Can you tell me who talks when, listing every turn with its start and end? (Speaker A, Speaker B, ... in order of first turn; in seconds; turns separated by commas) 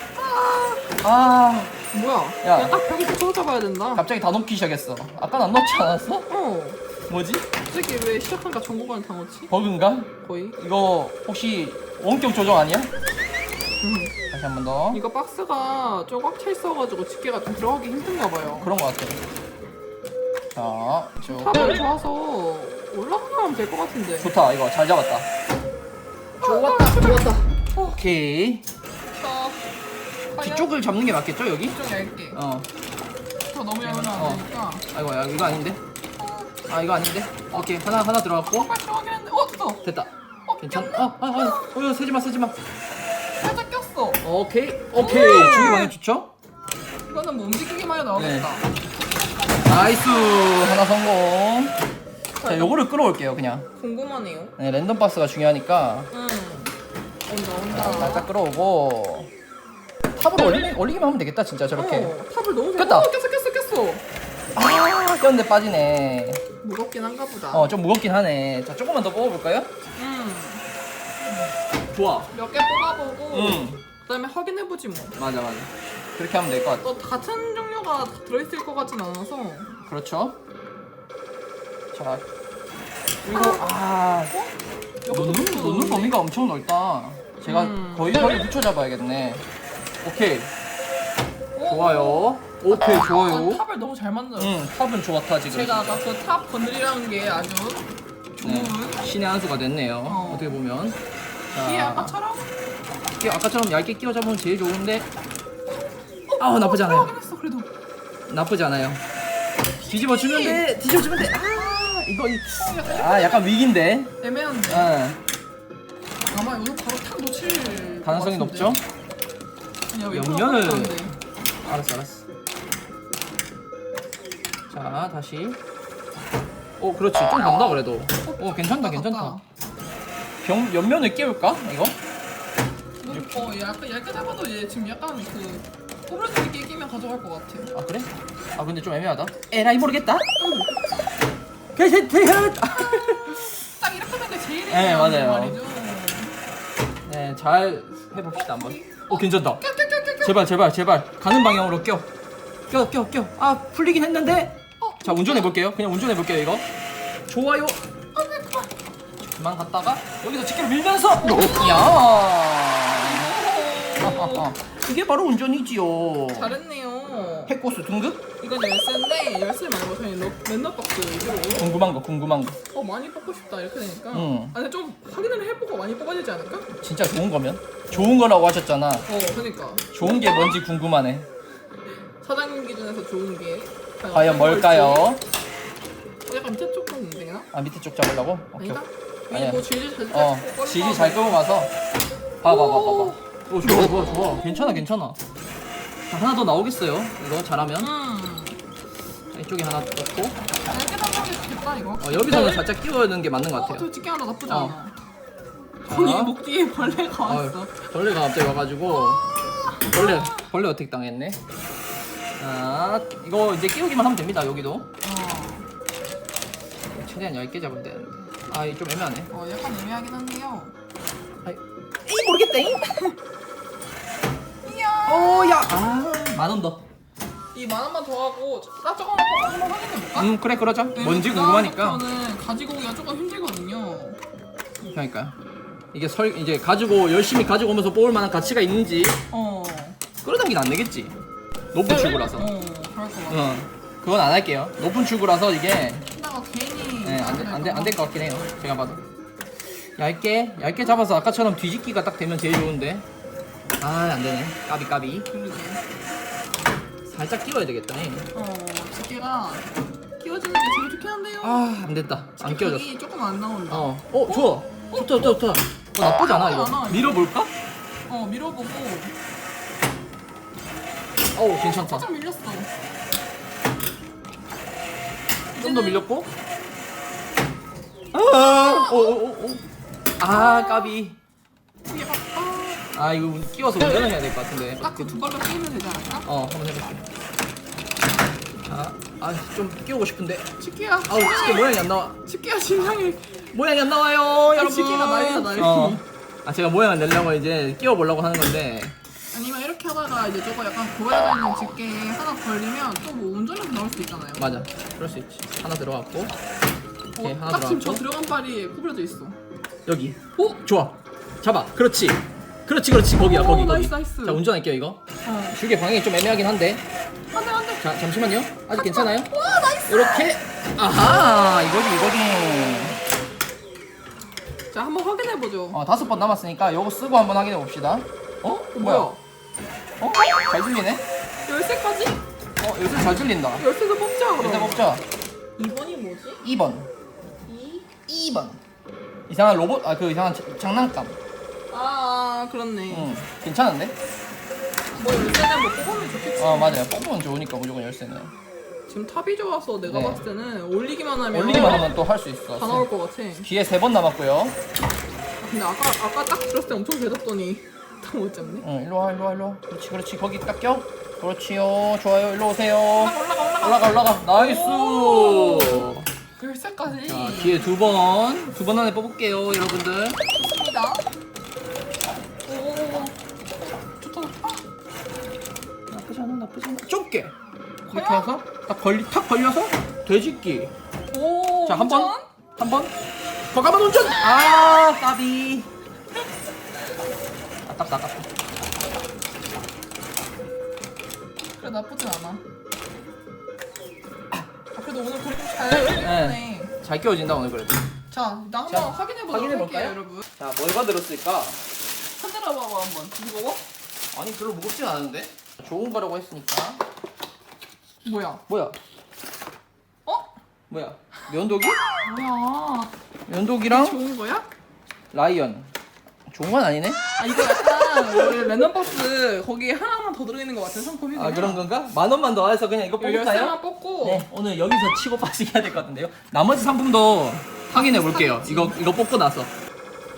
Speaker A: 0.1-0.9, Speaker B: 1.0-1.8, Speaker A: 1.9-4.0, Speaker B: 2.4-2.8, Speaker B: 3.9-6.3, Speaker A: 6.3-6.8, Speaker B: 7.1-7.5, Speaker A: 7.5-9.5, Speaker B: 9.5-12.9, Speaker A: 10.2-10.6, Speaker A: 13.8-14.1, Speaker B: 14.3-15.0, Speaker A: 14.9-18.7, Speaker B: 18.6-19.2, Speaker B: 20.5-21.8, Speaker A: 21.2-24.3, Speaker B: 24.2-25.3, Speaker A: 26.4-28.0, Speaker B: 26.4-28.6, Speaker A: 29.1-29.7, Speaker A: 30.3-30.8, Speaker B: 30.4-31.8, Speaker A: 31.7-32.4, Speaker B: 32.3-32.7, Speaker A: 33.5-34.8, Speaker B: 33.8-35.8, Speaker A: 36.2-36.5, Speaker B: 36.7-38.7, Speaker A: 38.6-39.8, Speaker B: 39.8-42.6, Speaker A: 40.5-41.7, Speaker A: 43.4-44.2, Speaker B: 44.2-46.3, Speaker A: 44.9-45.9, Speaker A: 47.1-48.7, Speaker B: 48.1-48.5, Speaker B: 49.6-51.8, Speaker A: 52.4-52.8, Speaker B: 52.4-53.6, Speaker A: 53.7-54.5, Speaker B: 54.6-56.1, Speaker A: 56.1-56.7, Speaker A: 57.3-58.3, Speaker B: 57.7-59.3, Speaker B: 60.1-62.1, Speaker A: 60.4-60.7, Speaker A: 61.7-64.0, Speaker B: 62.8-63.1, Speaker B: 64.5-66.4, Speaker A: 66.6-67.7, Speaker B: 67.5-69.7, Speaker A: 70.0-70.6, Speaker B: 71.9-72.3, Speaker A: 72.3-75.2, Speaker B: 73.3-73.8, Speaker B: 75.2-76.8, Speaker A: 76.8-79.7, Speaker B: 79.9-80.3, Speaker B: 81.9-82.2, Speaker B: 83.2-84.3, Speaker A: 83.3-83.7, Speaker A: 85.0-86.2, Speaker B: 85.1-89.4, Speaker A: 87.4-88.5, Speaker B: 90.0-90.5, Speaker A: 91.5-94.5, Speaker B: 91.7-93.6, Speaker B: 94.4-96.0, Speaker A: 95.5-99.0, Speaker B: 98.4-101.0, Speaker A: 100.1-100.6, Speaker B: 101.5-102.2, Speaker A: 101.5-102.5, Speaker B: 103.2-105.1, Speaker A: 106.3-107.7, Speaker B: 106.4-107.1, Speaker B: 108.3-109.0, Speaker B: 109.8-114.1, Speaker A: 109.9-110.6, Speaker A: 112.5-113.5, Speaker A: 114.2-114.9, Speaker B: 114.7-115.2, Speaker A: 116.3-118.8, Speaker B: 118.0-118.8, Speaker A: 119.9-121.1, Speaker B: 120.1-121.1, Speaker B: 121.6-122.2, Speaker B: 124.7-125.6, Speaker B: 126.8-129.4, Speaker A: 128.2-129.4, Speaker B: 130.4-131.9, Speaker A: 133.0-137.7, Speaker B: 137.7-140.2, Speaker A: 140.4-141.0, Speaker B: 141.7-143.6, Speaker A: 142.8-146.3, Speaker B: 144.7-145.6, Speaker B: 147.1-149.6, Speaker A: 148.4-150.3, Speaker B: 150.2-152.1, Speaker B: 152.7-156.7, Speaker A: 154.8-155.5, Speaker B: 157.3-157.8, Speaker A: 158.1-158.7, Speaker B: 159.3-163.3, Speaker A: 161.2-162.0, Speaker A: 163.0-164.5, Speaker B: 164.0-166.5, Speaker A: 166.3-167.5, Speaker B: 167.5-168.2, Speaker A: 168.4-171.7, Speaker B: 171.5-172.6, Speaker A: 172.7-176.7, Speaker B: 174.1-174.5, Speaker B: 176.7-179.1, Speaker A: 179.1-180.6, Speaker B: 179.9-181.3, Speaker A: 182.2-185.1, Speaker B: 184.1-185.2, Speaker A: 186.2-187.5, Speaker B: 187.5-191.7, Speaker A: 188.6-191.4, Speaker B: 192.4-195.2, Speaker A: 192.4-193.2, Speaker A: 194.1-194.8, Speaker B: 196.1-197.9, Speaker A: 197.8-198.6, Speaker B: 199.3-200.4, Speaker A: 200.7-202.7, Speaker B: 202.0-203.9, Speaker A: 203.5-204.9, Speaker B: 204.5-204.8, Speaker A: 205.8-207.9, Speaker B: 205.9-206.3, Speaker B: 207.2-211.4, Speaker A: 208.9-210.5, Speaker B: 212.4-214.9, Speaker A: 215.0-215.7, Speaker B: 216.9-219.3, Speaker A: 219.3-220.7, Speaker B: 221.4-223.0, Speaker A: 222.8-223.1, Speaker A: 224.6-225.7, Speaker B: 225.1-226.8, Speaker A: 227.5-230.3, Speaker B: 230.2-232.0, Speaker A: 230.9-234.2, Speaker B: 234.9-235.3, Speaker B: 235.9-239.2, Speaker A: 239.3-240.0, Speaker B: 240.2-241.1, Speaker B: 241.7-242.5, Speaker A: 242.2-243.6, Speaker B: 243.3-246.1, Speaker A: 246.1-248.0, Speaker B: 247.0-249.0, Speaker B: 250.0-253.1, Speaker B: 253.8-255.3, Speaker A: 255.3-255.8, Speaker B: 257.0-258.3, Speaker A: 258.3-259.6, Speaker A: 260.2-261.7, Speaker B: 261.4-262.8, Speaker A: 262.4-265.3, Speaker B: 263.7-267.5, Speaker A: 266.0-267.3, Speaker A: 268.1-269.1, Speaker B: 271.3-272.1, Speaker A: 271.5-272.7, Speaker A: 275.5-276.1, Speaker B: 275.6-276.3, Speaker B: 278.1-279.6, Speaker A: 278.5-279.1, Speaker B: 280.2-281.2, Speaker A: 280.2-280.9, Speaker A: 281.9-282.8, Speaker B: 282.9-285.1, Speaker A: 284.8-286.3, Speaker B: 286.2-287.1, Speaker B: 288.6-290.5, Speaker A: 290.6-293.4, Speaker B: 291.1-292.2, Speaker B: 293.5-298.9, Speaker A: 294.5-296.0, Speaker A: 299.3-304.6, Speaker B: 304.4-306.3, Speaker A: 307.1-309.4, Speaker B: 307.2-308.0, Speaker B: 309.9-315.0, Speaker A: 310.4-310.6, Speaker A: 313.1-314.4, Speaker A: 315.2-315.6, Speaker B: 315.5-316.8, Speaker A: 317.3-317.9, Speaker B: 317.8-319.3, Speaker A: 318.7-320.3, Speaker B: 319.9-323.0, Speaker A: 324.7-325.8, Speaker B: 325.7-329.1, Speaker A: 328.5-329.2, Speaker B: 330.0-331.0, Speaker A: 331.4-332.2, Speaker B: 332.6-333.6, Speaker A: 333.6-335.0, Speaker B: 334.4-335.0, Speaker A: 335.6-336.4, Speaker B: 336.4-336.9, Speaker A: 337.5-337.9, Speaker B: 338.0-338.6, Speaker B: 339.3-341.1, Speaker A: 341.7-343.1, Speaker B: 342.9-343.9, Speaker A: 344.9-346.8, Speaker B: 346.4-348.3, Speaker A: 348.9-351.9, Speaker B: 349.8-350.2, Speaker B: 351.3-352.9, Speaker A: 352.6-353.5, Speaker B: 353.4-354.6, Speaker A: 355.4-358.6, Speaker B: 358.6-366.1, Speaker A: 363.0-367.8, Speaker B: 367.0-370.2, Speaker A: 370.3-371.0, Speaker A: 372.5-373.1, Speaker A: 373.7-374.6, Speaker B: 375.9-377.3, Speaker A: 377.9-378.3, Speaker B: 377.9-380.7, Speaker A: 381.1-382.2, Speaker B: 381.6-382.9, Speaker B: 383.5-385.7, Speaker B: 387.6-388.3, Speaker A: 391.6-392.4, Speaker A: 394.7-396.7, Speaker B: 396.0-397.8, Speaker A: 398.1-400.2, Speaker B: 398.7-401.6, Speaker A: 402.1-403.6, Speaker B: 404.1-406.8, Speaker A: 408.0-408.4, Speaker B: 408.5-408.7, Speaker A: 410.1-410.3, Speaker B: 410.7-411.8, Speaker A: 412.0-412.9, Speaker B: 413.3-414.0, Speaker A: 413.6-414.5, Speaker B: 415.1-415.7, Speaker B: 416.3-418.5, Speaker A: 417.2-421.6, Speaker B: 421.1-429.5, Speaker A: 423.0-424.3, Speaker A: 427.7-428.8